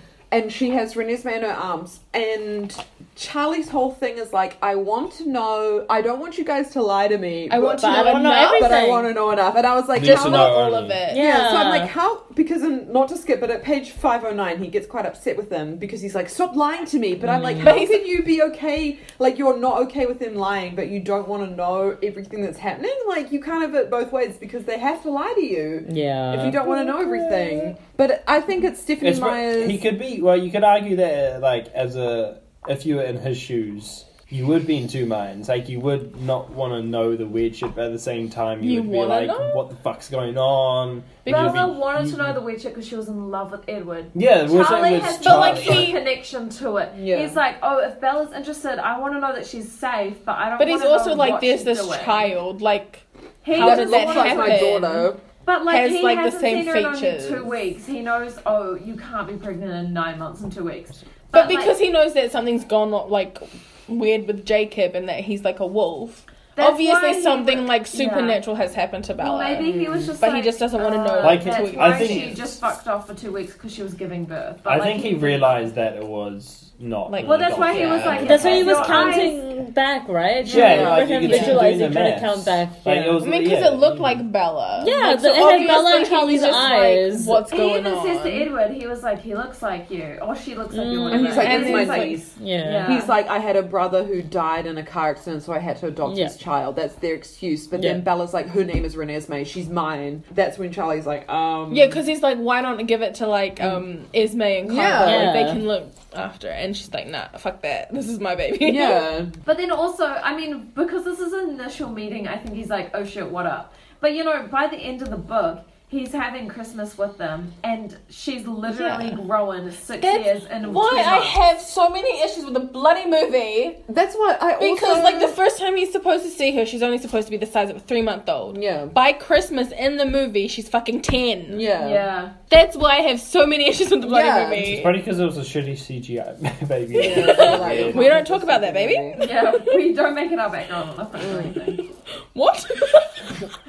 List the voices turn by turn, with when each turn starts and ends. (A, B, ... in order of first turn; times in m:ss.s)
0:00.3-0:29.8 A
0:07.5-0:08.9 B
0:07.8-0:09.1 C
0:09.9-0:11.1 D
0:10.0-0:11.3 B
0:11.1-0:11.9 C
0:17.2-0:17.8 C
0:17.6-0:18.1 B
0:25.8-0:27.7 C
0:29.0-0:42.4 D
0:38.6-0:39.6 B
0:41.2-0:41.7 B
0:41.2-0:52.3 E
0:44.1-0:45.9 D
0:45.2-0:46.0 B
0:46.9-0:47.4 A
0:50.6-0:55.1 B
0:53.4-0:54.6 E
0:53.5-0:55.2 A
0:55.4-1:01.8 E
0:55.7-0:57.5 B
1:01.3-1:12.4 B
1:06.6-1:08.4 E
1:09.2-1:15.7 E
1:11.2-1:12.4 D
1:14.6-1:19.3 D
1:17.1-1:19.3 B
1:17.2-1:19.4 E
1:18.1-1:22.9 C
1:20.5-1:20.9 E
1:20.5-1:21.1 A
1:20.5-1:24.2 D
1:21.2-1:21.6 B
1:22.8-1:23.2 A
1:23.2-1:28.5 B
1:24.8-1:27.4 C
1:25.5-1:25.8 E
1:27.5-1:33.1 E
1:30.7-1:33.0 C
1:31.1-1:42.0 A
1:31.4-1:32.2 B
1:36.0-1:36.3 C
1:37.7-1:38.0 C
1:41.7-1:49.1 B
1:44.6-1:45.4 A
1:45.0-1:45.6 C
1:48.6-1:49.3 A
1:49.4-2:01.4 E
1:58.7-1:59.2 B
2:00.0-2:03.8 B
2:03.9-2:05.4 A
2:04.6-2:11.7 B
2:08.5-2:08.9 A
2:11.5-2:12.1 A
2:11.8-2:12.3 E
2:12.5-2:15.0 B
2:14.0-2:14.7 A
2:14.6-2:18.1 D
2:16.9-2:19.2 A
2:16.9-2:19.8 B
2:19.2-2:21.8 E
2:21.2-2:21.5 A
2:22.3-2:23.4 B